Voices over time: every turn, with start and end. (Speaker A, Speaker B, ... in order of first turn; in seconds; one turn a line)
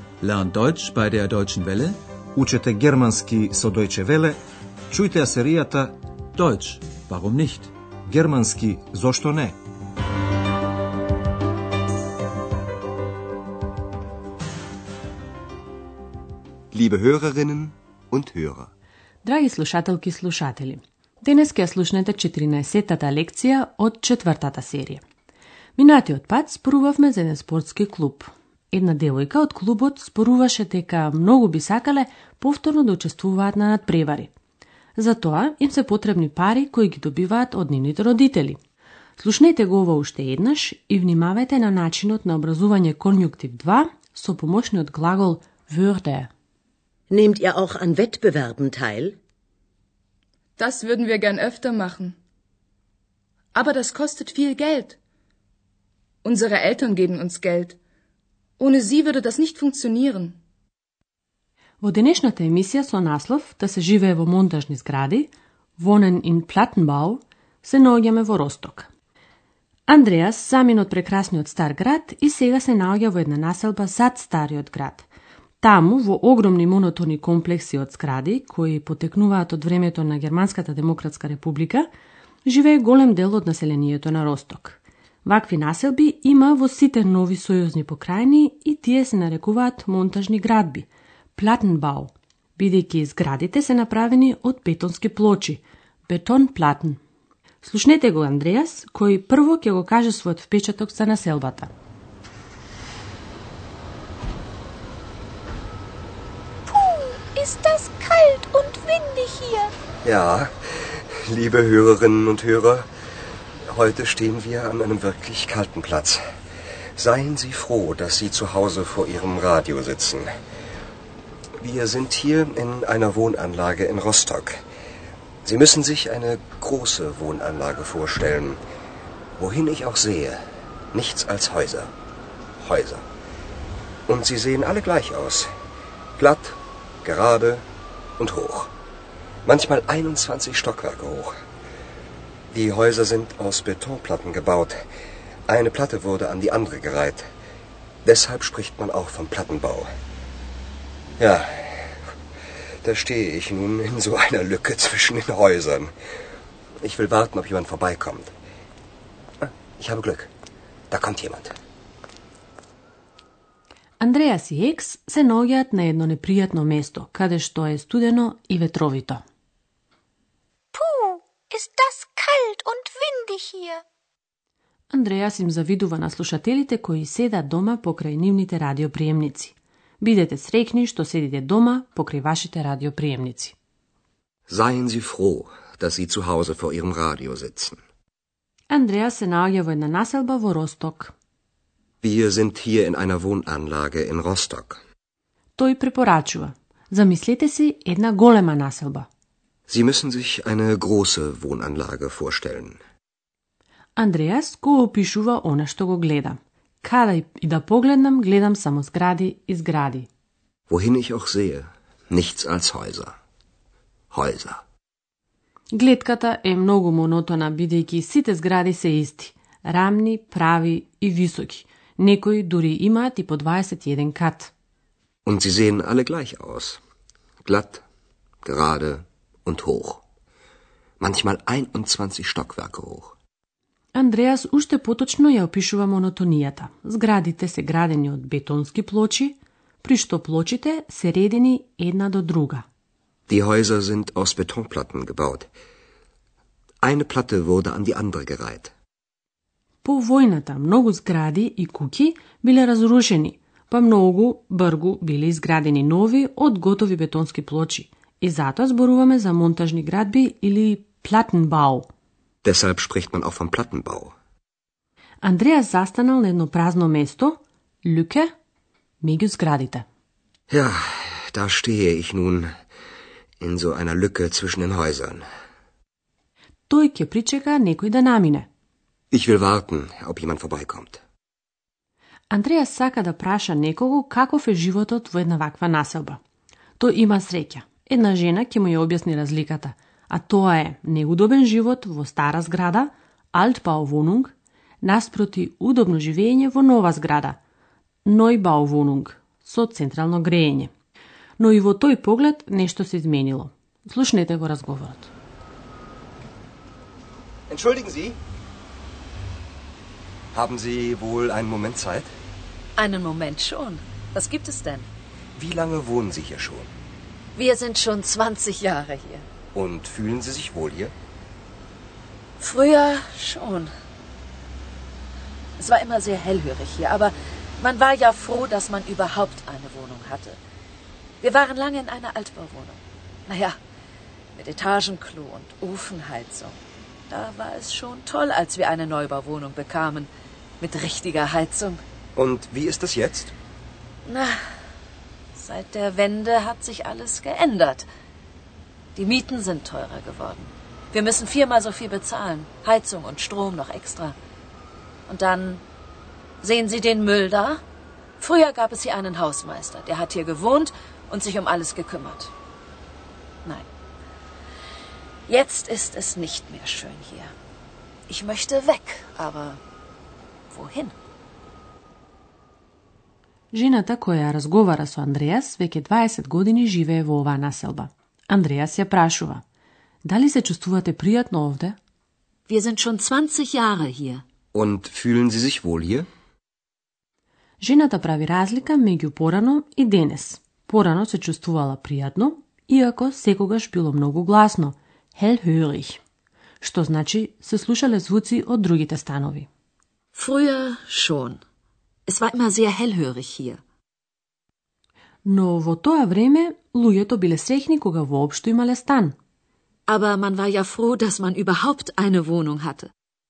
Speaker A: 0.2-2.0
Speaker B: 2.4-4.4
Speaker B: 4.9-6.0
Speaker A: 6.4-7.7
Speaker B: 8.1-9.6
Speaker C: 16.7-18.7
Speaker D: 19.2-25.0
Speaker D: 25.8-34.3
Speaker D: 35.0-38.6
Speaker D: 39.2-46.3
Speaker E: 47.1-49.2
Speaker F: 50.6-52.1
Speaker F: 53.5-55.0
Speaker F: 56.2-57.8
Speaker F: 58.6-60.4
Speaker D: 61.8-68.9
Speaker D: 69.9-75.1
Speaker D: 75.6-81.9
Speaker D: 82.5-97.0
Speaker D: 97.6-101.7
Speaker G: 106.7-109.7
Speaker C: 110.0-112.9
Speaker C: 113.7-116.2
Speaker C: 117.0-120.3
Speaker C: 121.6-124.6
Speaker C: 125.5-128.6
Speaker C: 129.4-131.9
Speaker C: 132.6-133.1
Speaker C: 134.1-135.5
Speaker C: 136.2-137.7
Speaker C: 138.2-138.7
Speaker C: 139.5-141.3
Speaker C: 142.5-144.8
Speaker C: 145.5-147.3
Speaker C: 148.0-149.9
Speaker C: 151.2-152.0
Speaker C: 152.8-155.9
Speaker C: 156.8-158.3
Speaker C: 159.4-160.3
Speaker C: 160.9-161.6
Speaker D: 164.0-169.2
Speaker G: 170.7-173.8
Speaker D: 174.9-183.6
Speaker C: 184.5-187.8
Speaker D: 188.7-191.1
Speaker C: 192.0-194.8
Speaker D: 195.6-199.1
Speaker C: 199.7-202.8
Speaker D: 204.0-210.1
Speaker C: 210.7-213.2
Speaker C: 214.1-214.6
Speaker D: 215.7-224.5
Speaker C: 225.3-226.8
Speaker C: 227.4-227.8
Speaker C: 228.4-230.0
Speaker C: 231.0-233.1
Speaker D: 233.9-242.7
Speaker C: 243.3-245.5
Speaker C: 246.8-248.7
Speaker D: 249.8-261.9
Speaker C: 262.4-264.1
Speaker D: 265.2-268.3
Speaker D: 269.0-269.9
Speaker C: 270.5-272.5
Speaker C: 273.4-275.3
Speaker D: 276.7-278.5
Speaker C: 279.1-281.0
Speaker D: 282.3-286.2
Speaker D: 286.8-297.4
Speaker D: 298.1-300.7
Speaker D: 301.4-305.1
Speaker C: 307.5-308.2
Speaker C: 310.3-312.1
Speaker H: 312.8-314.9
Speaker C: 315.4-316.7
Speaker H: 317.4-319.3
Speaker C: 319.5-320.9
Speaker H: 322.4-323.7
Speaker H: 325.6-330.4
Speaker H: 331.2-333.6
Speaker H: 334.4-336.6
Speaker H: 337.1-341.8
Speaker C: 342.2-343.3
Speaker H: 344.1-344.4
Speaker H: 345.4-347.9
Speaker H: 349.0-354.2
Speaker H: 355.1-355.6
Speaker H: 356.4-357.6
Speaker H: 358.2-362.3
Speaker H: 365.3-367.3
Speaker H: 368.1-369.6
Speaker H: 370.5-370.9
Speaker D: 373.5-379.4
Speaker D: 380.0-381.8
Speaker H: 382.5-384.2
Speaker C: 384.5-386.1
Speaker D: 387.6-396.0
Speaker D: 396.6-399.5
Speaker H: 400.1-401.4
Speaker H: 402.1-403.6
Speaker D: 405.2-409.1
Speaker H: 409.9-412.9